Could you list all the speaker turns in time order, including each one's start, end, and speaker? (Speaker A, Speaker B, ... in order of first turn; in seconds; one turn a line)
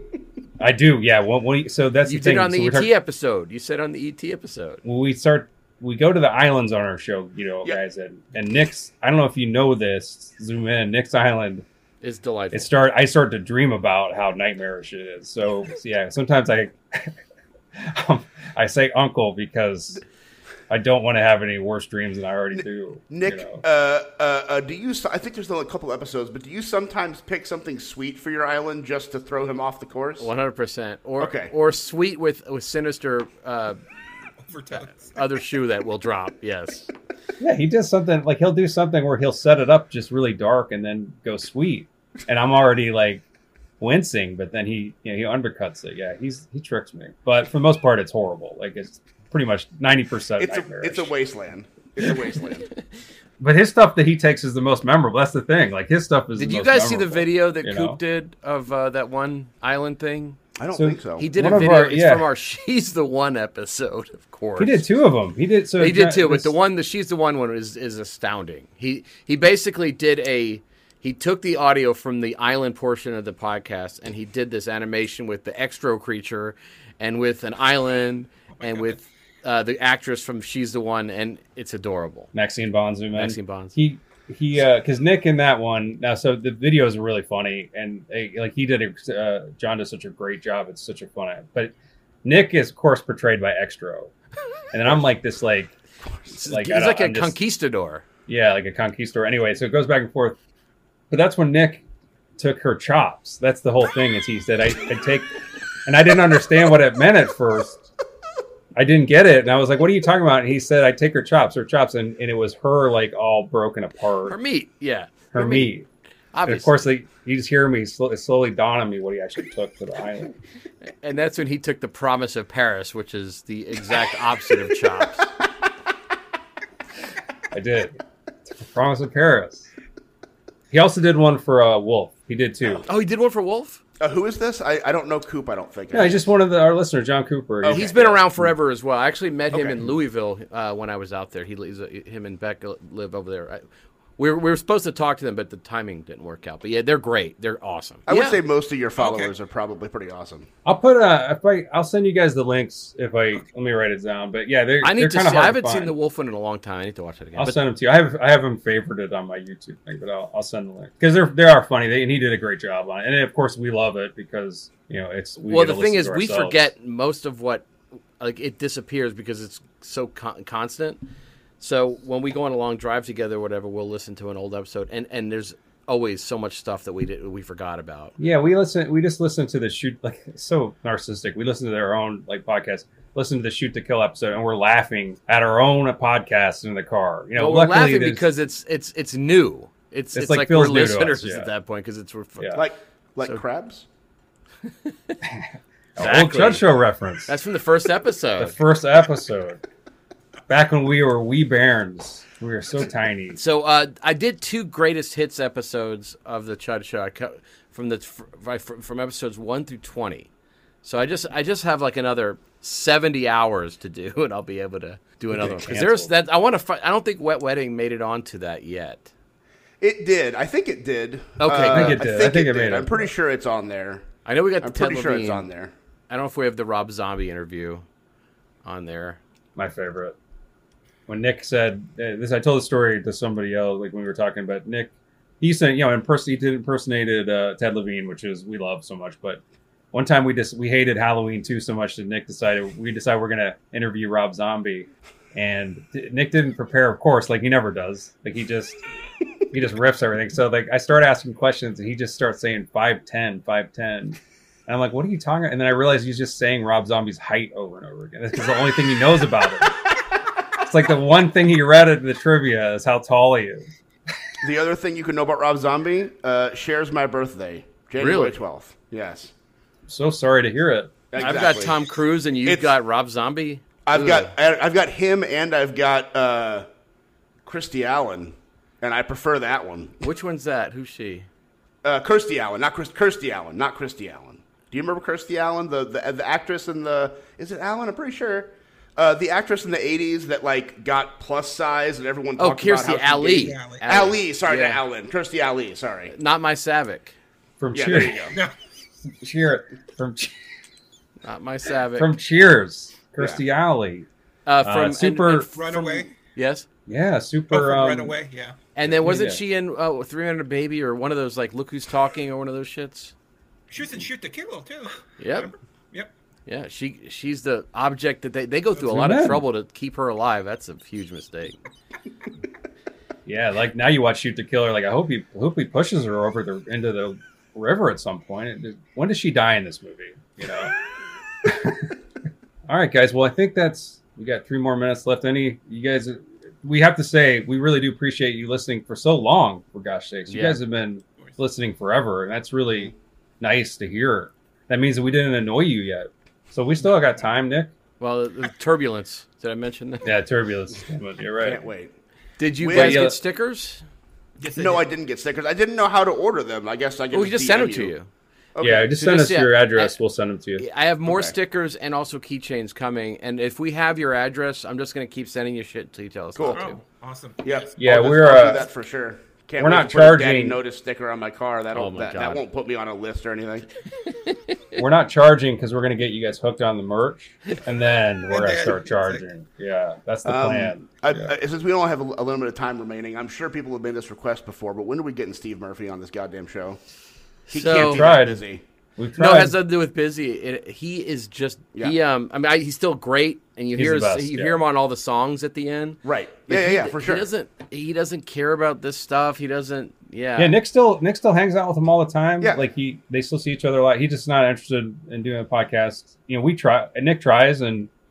Speaker A: 0.6-2.9
Speaker B: 2.0-4.8
Speaker A: 4.8-11.6
Speaker B: 12.0-12.7
Speaker A: 12.5-17.2
Speaker A: 17.7-20.0
Speaker A: 20.7-23.6
Speaker C: 22.5-30.3
Speaker B: 30.2-33.8
Speaker C: 31.2-31.5
Speaker D: 34.5-35.3
Speaker B: 34.7-36.9
Speaker A: 37.4-43.2
Speaker A: 43.8-51.1
Speaker C: 50.4-52.7
Speaker A: 53.4-58.0
Speaker B: 56.4-60.4
Speaker C: 60.6-61.3
Speaker A: 60.7-62.3
Speaker B: 61.2-64.8
Speaker A: 64.6-66.5
Speaker B: 65.8-82.3
Speaker D: 78.6-79.0
Speaker A: 82.3-94.1
Speaker B: 83.1-83.7
Speaker A: 94.7-95.7
Speaker B: 96.3-98.0
Speaker A: 96.5-97.3
Speaker A: 98.3-100.4
Speaker A: 101.1-101.8
Speaker A: 102.4-105.3
Speaker A: 105.8-107.8
Speaker A: 108.7-114.4
Speaker B: 114.3-115.7
Speaker A: 115.3-115.9
Speaker B: 116.3-116.9
Speaker A: 116.5-120.4
Speaker B: 120.8-125.3
Speaker A: 127.5-128.0
Speaker A: 128.5-129.7
Speaker A: 130.7-132.8
Speaker B: 132.9-133.8
Speaker C: 134.0-136.2
Speaker A: 135.9-138.5
Speaker C: 137.6-138.2
Speaker B: 137.7-143.6
Speaker C: 139.5-139.9
Speaker B: 144.2-148.4
Speaker C: 148.1-150.5
Speaker D: 148.9-149.3
Speaker A: 150.6-155.9
Speaker B: 154.8-157.6
Speaker A: 157.4-166.7
Speaker B: 165.5-167.7
Speaker B: 168.2-171.0
Speaker B: 171.6-178.1
Speaker A: 178.2-188.3
Speaker B: 187.4-192.6
Speaker A: 190.1-191.5
Speaker A: 192.4-192.6
Speaker C: 192.5-193.8
Speaker B: 194.8-195.2
Speaker A: 195.2-197.3
Speaker B: 196.0-196.7
Speaker B: 197.3-198.6
Speaker A: 198.4-199.6
Speaker A: 200.5-203.4
Speaker B: 203.3-210.3
Speaker B: 210.8-219.1
Speaker A: 215.3-216.1
Speaker C: 219.8-224.1
Speaker B: 221.4-222.0
Speaker A: 221.7-223.1
Speaker B: 224.2-225.5
Speaker C: 224.6-225.7
Speaker B: 226.1-227.8
Speaker B: 228.6-229.2
Speaker A: 229.6-230.2
Speaker A: 231.1-239.4
Speaker A: 239.9-248.8
Speaker A: 249.5-259.8
Speaker A: 260.5-263.7
Speaker C: 264.4-269.3
Speaker B: 268.0-268.4
Speaker A: 269.9-270.9
Speaker C: 271.1-271.8
Speaker B: 271.2-274.3
Speaker C: 272.4-272.7
Speaker C: 273.9-276.7
Speaker C: 277.4-280.0
Speaker B: 280.0-281.3
Speaker C: 281.8-296.1
Speaker B: 292.4-294.8
Speaker D: 293.3-293.8
Speaker B: 296.1-297.1
Speaker A: 297.6-298.4
Speaker C: 297.7-298.4
Speaker A: 299.1-300.4
Speaker B: 301.2-302.1
Speaker A: 301.9-304.1
Speaker B: 304.4-306.6
Speaker A: 304.6-305.9
Speaker D: 305.5-306.1
Speaker A: 306.9-308.1
Speaker D: 307.5-308.6
Speaker B: 308.7-313.1
Speaker A: 308.9-309.4
Speaker D: 313.7-316.1
Speaker B: 315.2-315.5
Speaker B: 316.5-321.6
Speaker A: 318.8-319.4
Speaker A: 323.2-330.7
Speaker A: 331.4-331.9
Speaker A: 332.7-347.7
Speaker B: 340.3-340.6
Speaker B: 348.0-350.1
Speaker A: 350.0-351.6
Speaker C: 351.4-351.9
Speaker B: 352.4-353.8
Speaker C: 352.6-353.1
Speaker A: 352.7-353.2
Speaker D: 354.4-354.9
Speaker C: 354.6-357.9
Speaker B: 357.1-358.1
Speaker C: 358.6-358.9
Speaker A: 358.6-360.6
Speaker B: 358.7-359.9
Speaker B: 360.6-366.8
Speaker C: 361.1-361.3
Speaker C: 366.3-366.6
Speaker D: 366.5-367.7
Speaker C: 367.4-373.7
Speaker A: 367.8-368.7
Speaker A: 369.6-370.6
Speaker B: 371.7-372.4
Speaker B: 374.2-374.6
Speaker A: 374.7-381.3
Speaker D: 378.3-379.2
Speaker C: 380.2-386.8
Speaker B: 387.5-388.1
Speaker C: 387.5-388.6
Speaker A: 387.7-388.4
Speaker A: 389.0-389.5
Speaker B: 389.1-400.6
Speaker A: 393.7-394.6
Speaker C: 396.0-397.2
Speaker A: 400.4-407.9